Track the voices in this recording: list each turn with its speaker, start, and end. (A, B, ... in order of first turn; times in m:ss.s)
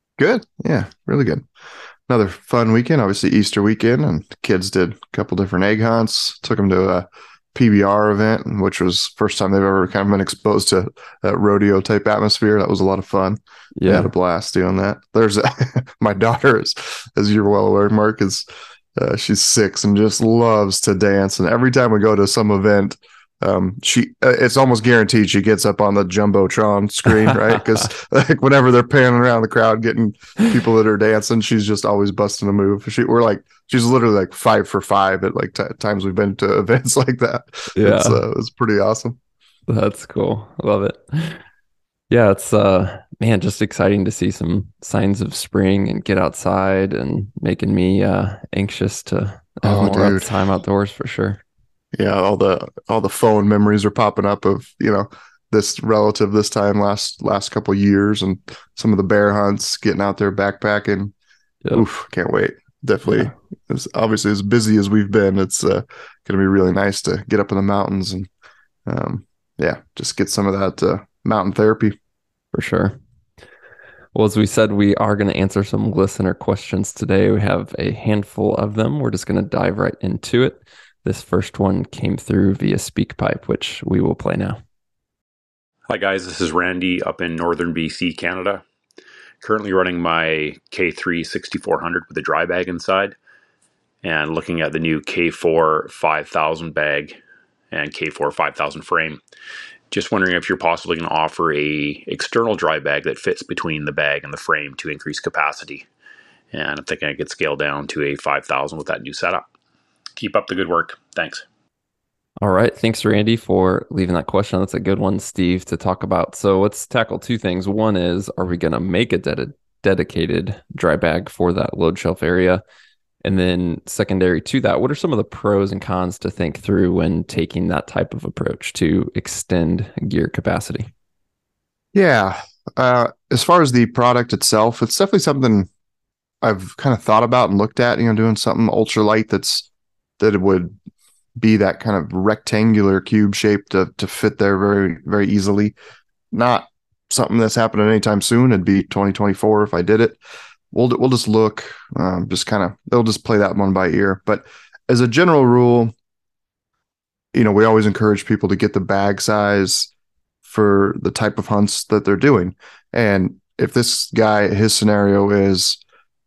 0:00.2-0:01.4 A
0:02.1-0:18.4 A
0:13.8-0:14.1 B
0:19.0-0:39.2 A
0:37.8-0:38.2 B
0:39.7-0:41.4 B
0:42.1-0:51.4 B
0:49.6-0:50.2 A
0:51.9-1:01.1 A
1:01.7-1:08.3 A
1:08.8-1:12.0 A
1:12.5-1:13.0 B
1:14.1-1:24.6 B
1:25.9-1:28.6 C
1:29.4-1:33.2 C
1:34.0-1:37.2 C
1:37.7-1:39.2 C
1:39.9-1:45.9 C
1:46.5-1:49.5 C
1:50.2-1:51.4 C
1:52.4-2:02.6 B
2:03.2-2:10.9 B
2:11.9-2:15.7 A
2:16.4-2:19.7 A
2:20.2-2:20.7 A
2:21.4-2:25.7 A
2:26.3-2:30.2 A
2:30.7-2:35.9 A
2:37.3-2:39.9 A
2:40.4-2:45.8 A